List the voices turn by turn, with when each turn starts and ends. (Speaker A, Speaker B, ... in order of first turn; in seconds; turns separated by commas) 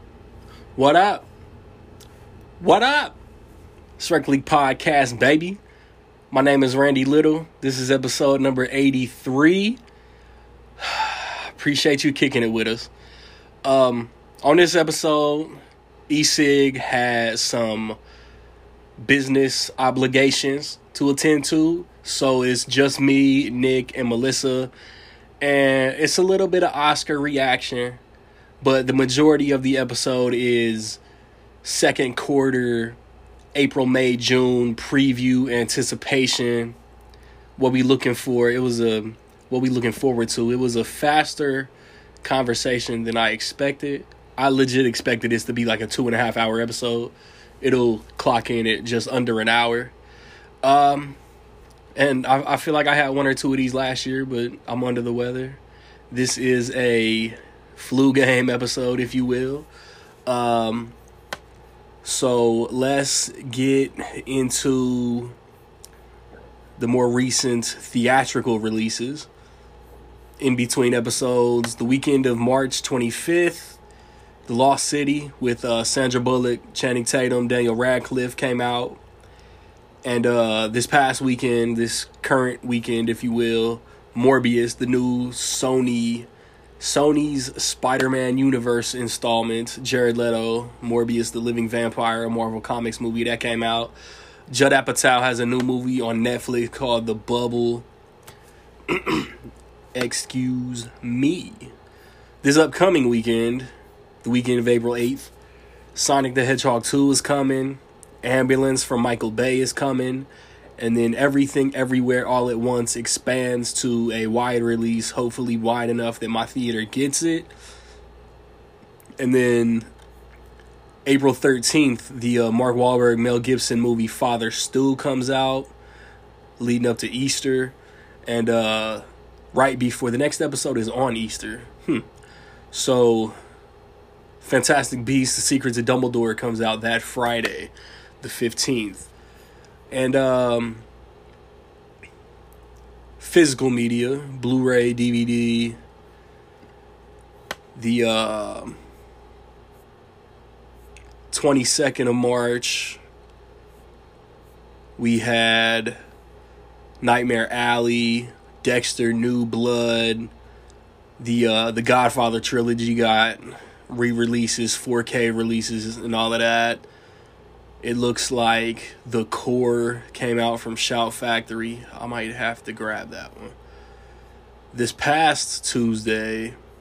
Speaker A: 0.8-1.3, Speaker A: 2.6-3.2, Speaker A: 4.0-5.6, Speaker A: 6.3-9.8, Speaker A: 10.8-12.9, Speaker A: 13.6-15.6, Speaker A: 16.1-18.0, Speaker A: 19.0-24.7, Speaker A: 25.4-28.0, Speaker A: 28.6-31.0, Speaker A: 31.6-33.0, Speaker A: 33.5-36.8, Speaker A: 37.6-41.7, Speaker A: 42.2-49.9, Speaker A: 50.6-51.2, Speaker A: 52.0-55.6, Speaker A: 56.1-59.7, Speaker A: 60.3-61.0, Speaker A: 62.0-65.4, Speaker A: 66.8-69.3, Speaker A: 70.4-73.8, Speaker A: 74.5-79.0, Speaker A: 80.0-86.3, Speaker A: 86.8-94.0, Speaker A: 94.5-97.9, Speaker A: 98.9-99.3, Speaker A: 100.0-101.7, Speaker A: 102.4-103.7, Speaker A: 104.2-105.3, Speaker A: 106.0-117.5, Speaker A: 119.2-119.9, Speaker A: 121.1-125.7, Speaker A: 126.6-127.8, Speaker A: 128.3-132.1, Speaker A: 132.7-133.4, Speaker A: 134.4-139.1, Speaker A: 139.9-140.8, Speaker A: 143.2-145.8, Speaker A: 147.8-148.8, Speaker A: 151.3-153.0, Speaker A: 155.0-156.0, Speaker A: 157.0-160.3, Speaker A: 161.2-166.8, Speaker A: 167.8-173.6, Speaker A: 174.7-176.6